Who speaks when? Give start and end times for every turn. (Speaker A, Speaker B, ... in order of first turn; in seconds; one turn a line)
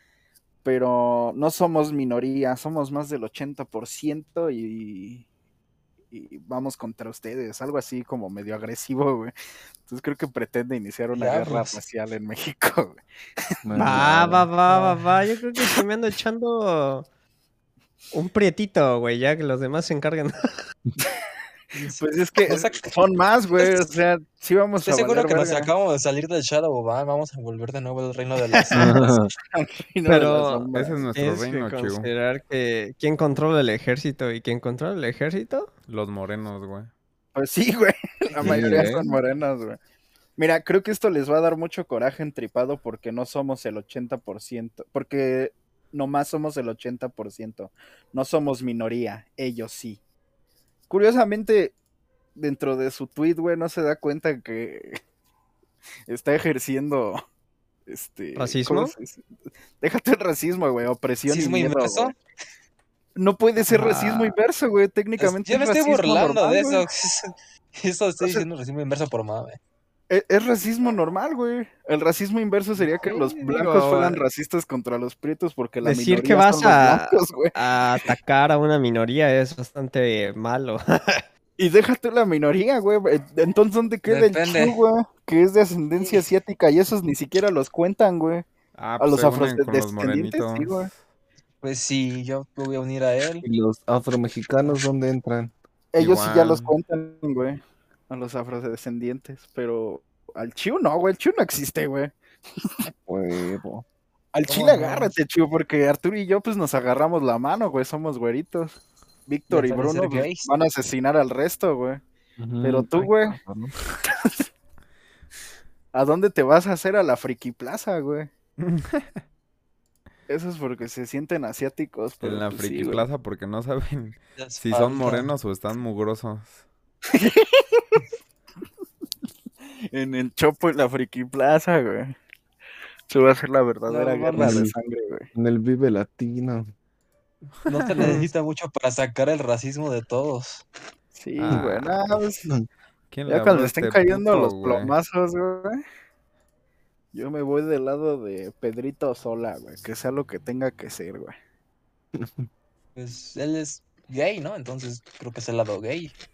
Speaker A: 0.6-5.2
Speaker A: 6.1-9.3
Speaker A: 9.8-13.0
Speaker B: 11.1-11.8
Speaker C: 13.6-14.5
Speaker D: 13.8-17.1
Speaker B: 14.7-15.0
Speaker D: 18.1-20.5
Speaker B: 21.7-22.9
Speaker A: 21.9-25.7
Speaker B: 24.8-29.1
Speaker C: 28.7-29.3
Speaker A: 29.5-31.1
Speaker D: 30.0-35.7
Speaker E: 30.7-32.1
Speaker E: 35.9-36.9
Speaker A: 37.3-39.8
Speaker B: 38.4-38.8
Speaker C: 38.4-39.1
Speaker A: 40.4-50.0
Speaker A: 50.9-51.7
Speaker A: 52.4-55.0
Speaker A: 56.1-57.2
Speaker A: 57.9-59.2
Speaker D: 58.4-58.9
Speaker A: 59.8-62.1
Speaker B: 61.3-62.1
Speaker A: 63.1-66.9
Speaker B: 63.7-64.3
Speaker B: 65.2-69.6
Speaker A: 68.2-68.5
Speaker A: 70.1-77.5
Speaker D: 73.0-74.2
Speaker D: 75.8-81.2
Speaker A: 81.6-88.5
Speaker B: 84.1-84.8
Speaker E: 88.7-91.0
Speaker A: 89.0-90.9
Speaker B: 91.6-93.5
Speaker C: 93.4-95.5
Speaker A: 95.9-102.1
Speaker E: 96.0-96.7
Speaker C: 103.0-103.8
Speaker A: 104.3-112.0
Speaker B: 104.5-105.1
Speaker B: 109.5-110.5
Speaker C: 112.4-113.7
Speaker A: 112.6-113.4
Speaker A: 114.0-114.5
Speaker A: 115.9-118.3
Speaker E: 118.6-119.1
Speaker A: 120.3-123.0
Speaker E: 122.2-126.6
Speaker B: 124.4-125.3
Speaker A: 127.1-128.0
Speaker A: 129.9-132.2
Speaker A: 133.1-135.3
Speaker B: 133.9-134.7
Speaker C: 134.3-134.7
Speaker C: 135.3-136.7
Speaker B: 137.6-140.6
Speaker A: 141.1-142.5
Speaker E: 141.4-141.9
Speaker E: 143.1-144.9
Speaker A: 143.3-145.8
Speaker A: 147.1-151.3
Speaker C: 152.2-152.5
Speaker B: 152.9-156.1